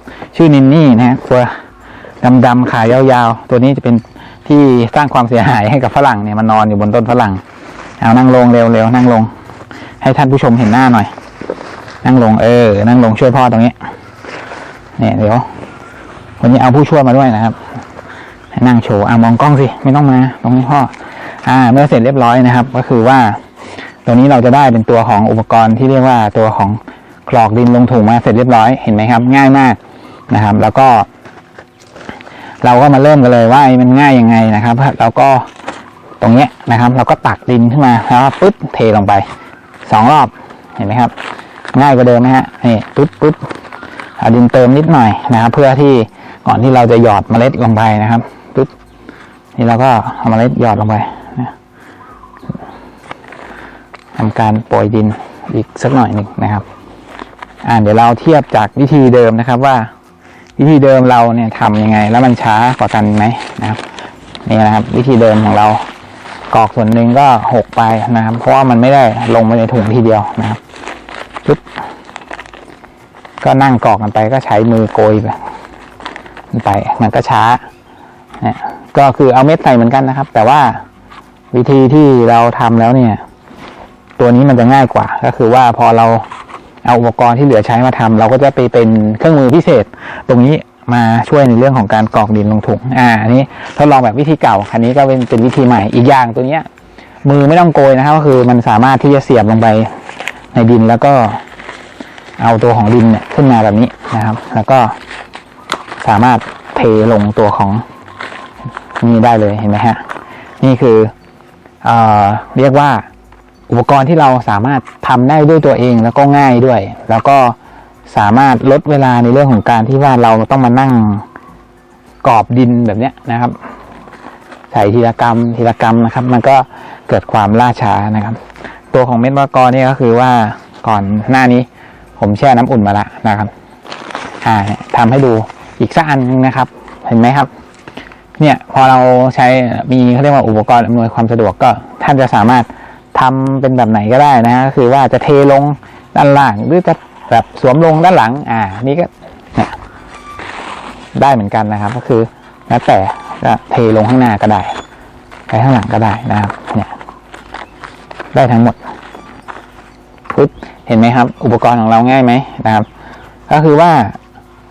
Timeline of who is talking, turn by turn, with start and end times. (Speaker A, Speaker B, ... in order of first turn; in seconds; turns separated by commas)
Speaker A: 0.3-1.6, Speaker A: 2.2-7.4, Speaker A: 8.0-9.3, Speaker A: 10.0-11.1, Speaker A: 12.0-13.8, Speaker A: 15.0-15.5, Speaker A: 16.4-17.6, Speaker A: 18.5-23.4, Speaker A: 24.0-29.8, Speaker A: 30.3-31.1, Speaker A: 32.6-35.5, Speaker A: 36.2-39.2, Speaker A: 39.8-41.1, Speaker A: 41.7-43.5, Speaker A: 44.2-48.7, Speaker A: 49.5-51.5, Speaker A: 54.2-56.6, Speaker A: 57.6-59.9, Speaker A: 60.6-63.8, Speaker A: 64.5-65.9, Speaker A: 66.5-70.6, Speaker A: 73.4-75.4, Speaker A: 76.5-77.6, Speaker A: 78.4-80.8, Speaker A: 81.5-83.2, Speaker A: 84.2-86.3, Speaker A: 86.8-96.7, Speaker A: 97.2-99.9, Speaker A: 100.5-101.4, Speaker A: 102.4-105.0, Speaker A: 106.0-107.8, Speaker A: 109.0-110.0, Speaker A: 110.6-111.1, Speaker A: 111.8-113.0, Speaker A: 113.7-117.5, Speaker A: 118.1-121.2, Speaker A: 122.2-123.6, Speaker A: 124.7-128.4, Speaker A: 128.9-133.5, Speaker A: 134.4-137.5, Speaker A: 138.4-149.8, Speaker A: 151.1-154.8, Speaker A: 155.5-156.9, Speaker A: 158.3-158.8, Speaker A: 160.3-162.9, Speaker A: 163.5-164.2